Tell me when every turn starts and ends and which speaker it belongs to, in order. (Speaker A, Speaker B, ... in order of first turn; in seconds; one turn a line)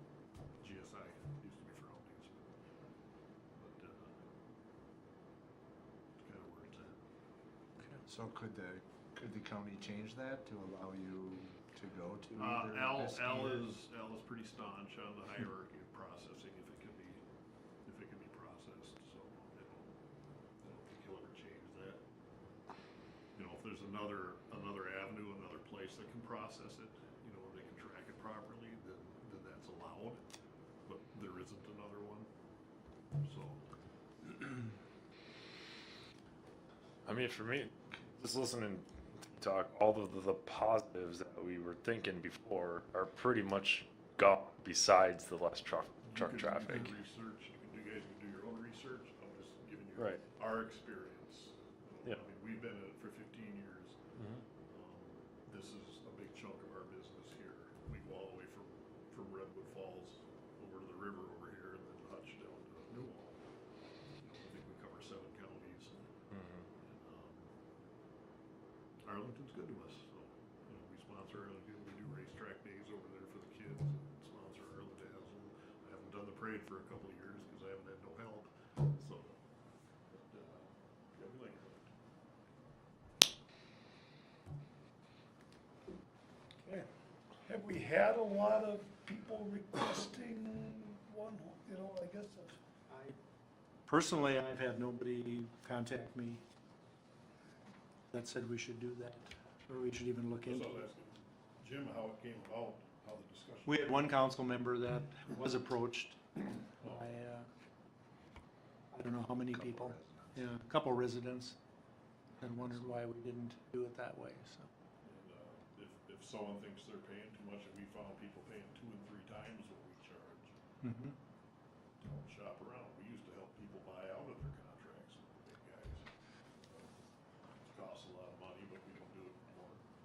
Speaker A: 0.6-2.5
Speaker A: 3.6-4.3
Speaker A: 6.2-7.0
Speaker B: 8.0-13.7
Speaker A: 12.3-17.2
Speaker A: 17.8-19.9
Speaker A: 20.6-22.0
Speaker A: 23.3-30.2
Speaker A: 30.9-32.3
Speaker A: 33.2-33.6
Speaker C: 37.0-46.9
Speaker A: 46.1-54.0
Speaker C: 50.0-50.2
Speaker C: 54.2-54.4
Speaker A: 54.5-63.4
Speaker A: 64.2-66.1
Speaker A: 66.8-67.5
Speaker A: 69.0-79.4
Speaker A: 80.1-81.9
Speaker D: 87.4-93.1
Speaker E: 93.9-96.4
Speaker E: 98.1-100.7
Speaker A: 100.5-104.0
Speaker E: 103.7-107.5
Speaker A: 106.8-107.1
Speaker E: 108.9-111.6
Speaker B: 109.6-110.0
Speaker E: 112.4-114.7
Speaker A: 112.6-112.8
Speaker A: 115.0-120.5
Speaker E: 120.8-121.1
Speaker A: 122.0-126.1
Speaker A: 126.6-127.0
Speaker A: 127.6-129.9